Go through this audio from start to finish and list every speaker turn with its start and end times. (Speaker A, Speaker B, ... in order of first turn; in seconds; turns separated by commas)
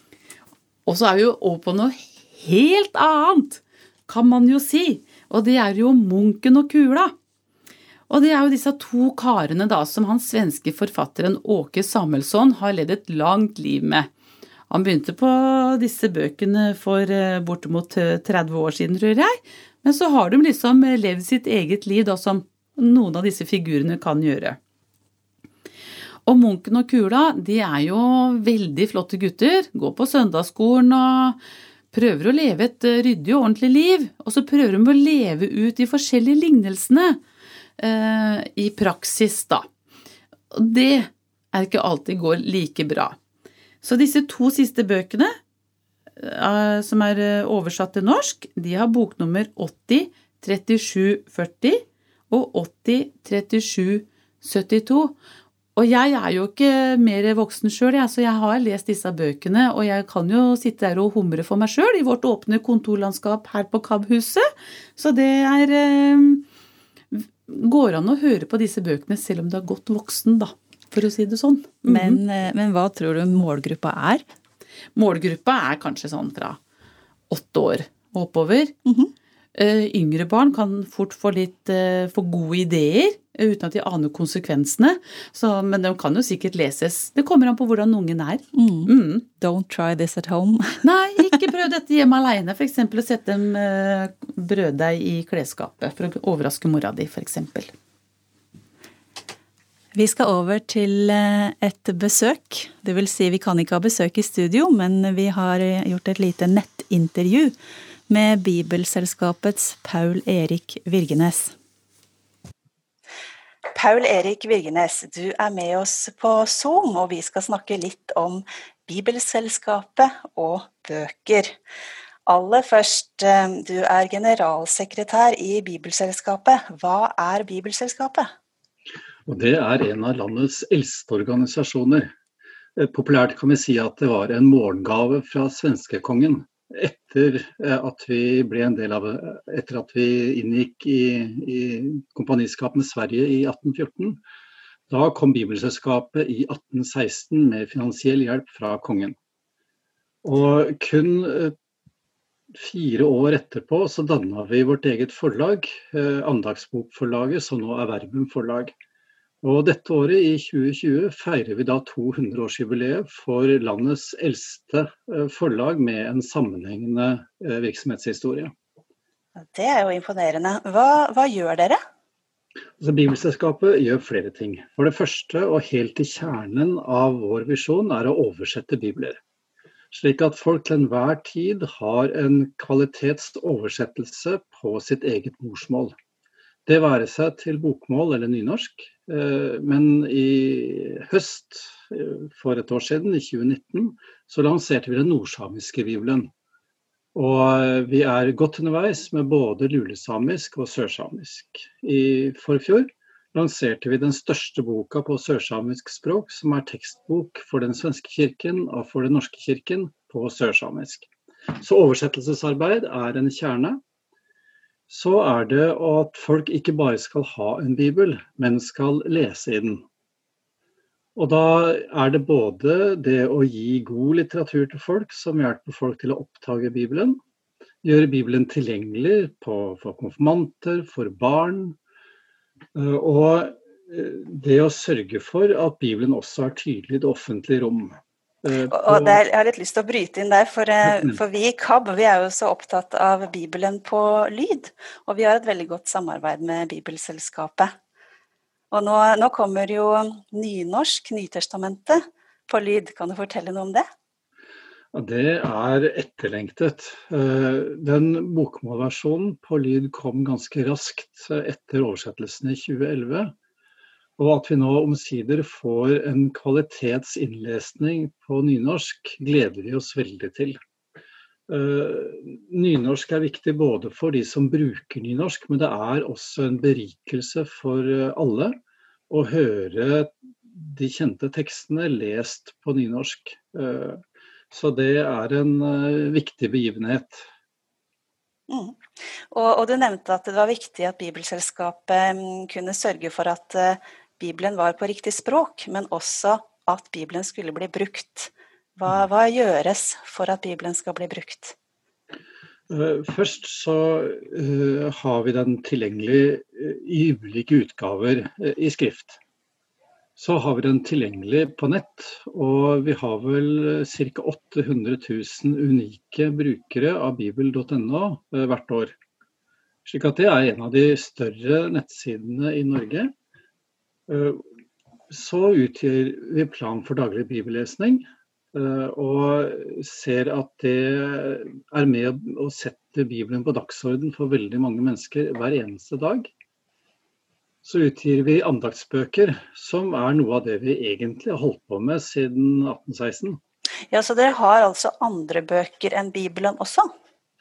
Speaker A: 0.8-7.1, Speaker A: 8.1-14.1, Speaker A: 14.7-24.6, Speaker A: 26.2-31.4, Speaker A: 31.9-37.2, Speaker A: 37.8-39.7, Speaker A: 40.5-43.2, Speaker A: 43.8-45.3, Speaker A: 46.2-55.1, Speaker A: 55.8-66.4, Speaker A: 67.1-72.2, Speaker B: 71.9-74.2, Speaker A: 74.9-76.6, Speaker A: 77.3-78.7, Speaker A: 79.5-89.2, Speaker B: 88.5-90.8, Speaker A: 90.8-97.7, Speaker B: 99.9-107.5, Speaker B: 108.1-111.5, Speaker C: 113.7-121.5, Speaker C: 122.3-128.3, Speaker D: 129.2-132.1, Speaker D: 132.8-144.2, Speaker D: 144.9-149.2, Speaker D: 150.2-151.5, Speaker D: 152.5-158.7, Speaker D: 159.4-168.5, Speaker C: 169.4-171.8, Speaker D: 172.8-179.2, Speaker D: 179.9-185.9, Speaker D: 186.7-196.3, Speaker D: 197.1-213.8, Speaker D: 214.9-219.8, Speaker D: 221.2-227.2, Speaker D: 227.8-231.8, Speaker D: 232.7-239.2, Speaker C: 238.7-247.7, Speaker D: 240.8-241.2, Speaker C: 248.7-253.8, Speaker D: 254.9-263.3, Speaker D: 264.2-270.6, Speaker D: 271.5-278.5, Speaker D: 279.1-287.2, Speaker C: 288.5-288.8, Speaker C: 289.3-301.5, Speaker D: 302.7-309.2, Speaker D: 310.2-318.9, Speaker D: 319.9-323.1, Speaker D: 324.1-324.4, Speaker D: 325.1-336.3, Speaker D: 337.6-343.4, Speaker C: 343.9-346.9